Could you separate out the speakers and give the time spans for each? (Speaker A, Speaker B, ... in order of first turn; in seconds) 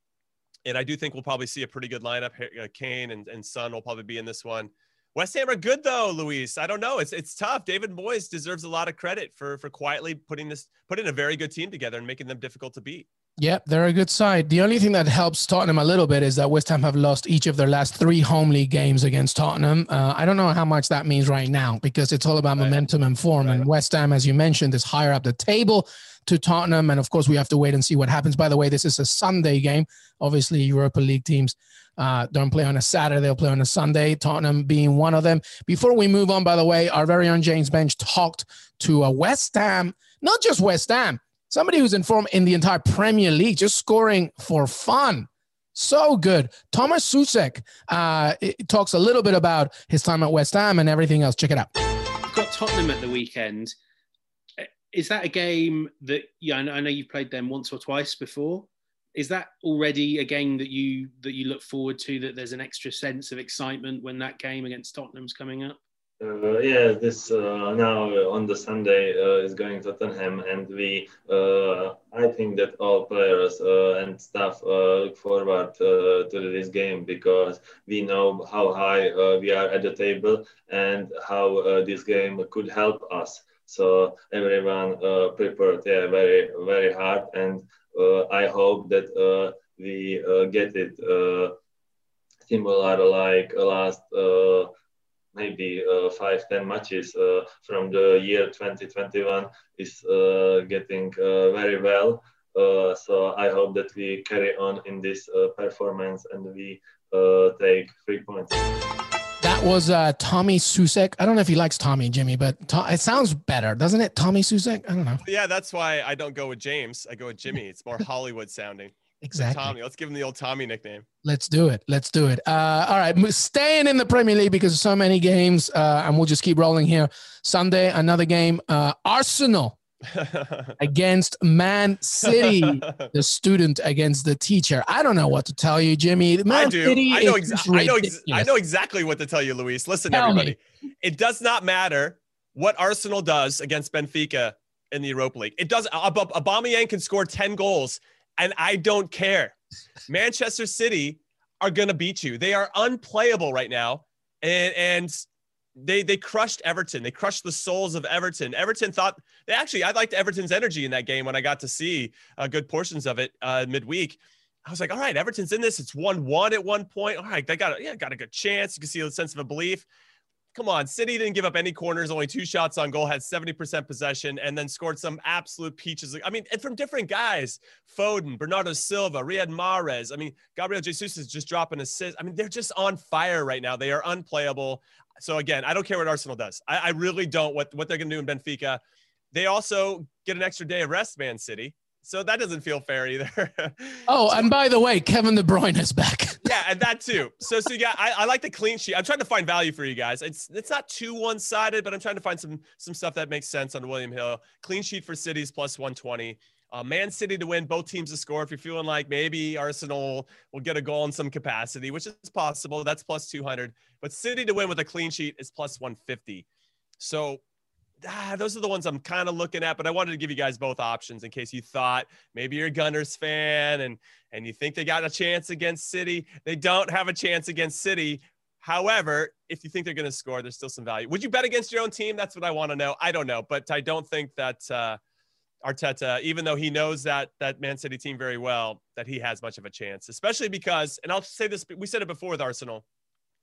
Speaker A: 0.6-13.1, 115.2-121.0, 130.1-130.8, 132.2-133.1, 136.5-149.6, 150.1-155.2, 155.8-169.8, 170.5-188.8, 189.3-194.4, 196.4-216.4, 217.0-217.4, 218.0-235.0, 235.6-242.8
Speaker B: 13.4-51.7, 109.4-115.2, 119.2-119.7, 121.2-129.8, 130.8-138.5, 140.1-140.5, 194.1-196.4
Speaker C: 52.3-53.7, 54.9-65.8
Speaker D: 66.2-91.5, 92.5-94.7, 95.3-108.6